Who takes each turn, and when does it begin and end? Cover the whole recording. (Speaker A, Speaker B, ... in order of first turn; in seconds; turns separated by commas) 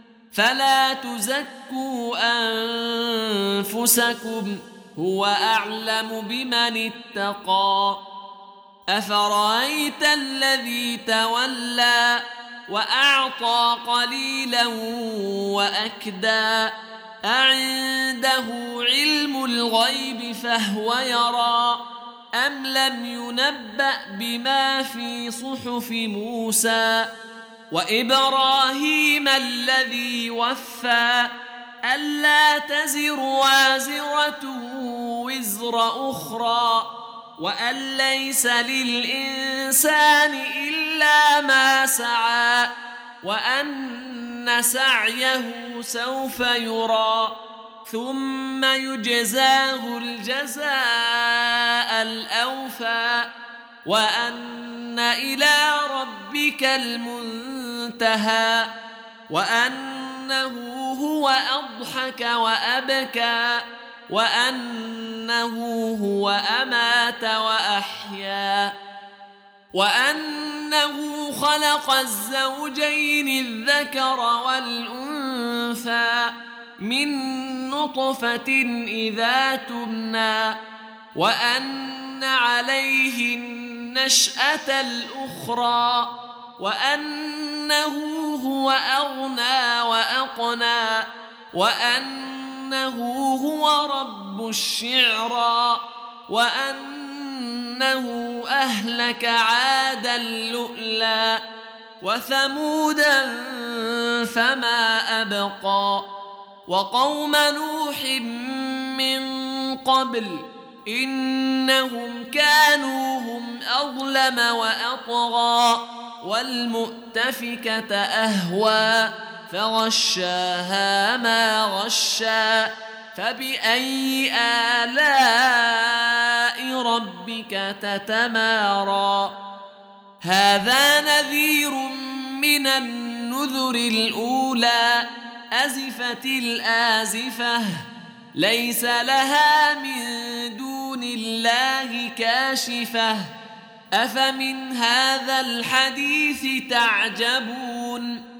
Speaker A: 0.3-8.0, Speaker A: 8.9-16.7, Speaker A: 17.2-21.8, Speaker A: 22.3-27.1, Speaker A: 27.7-31.3, Speaker A: 31.9-42.7, Speaker A: 43.2-53.3, Speaker A: 53.8-58.7, Speaker A: 59.3-68.7, Speaker A: 69.7-80.5, Speaker A: 81.1-101.4, Speaker A: 102.0-106.0, Speaker A: 106.7-129.3, Speaker A: 130.2-143.3, Speaker A: 143.9-148.2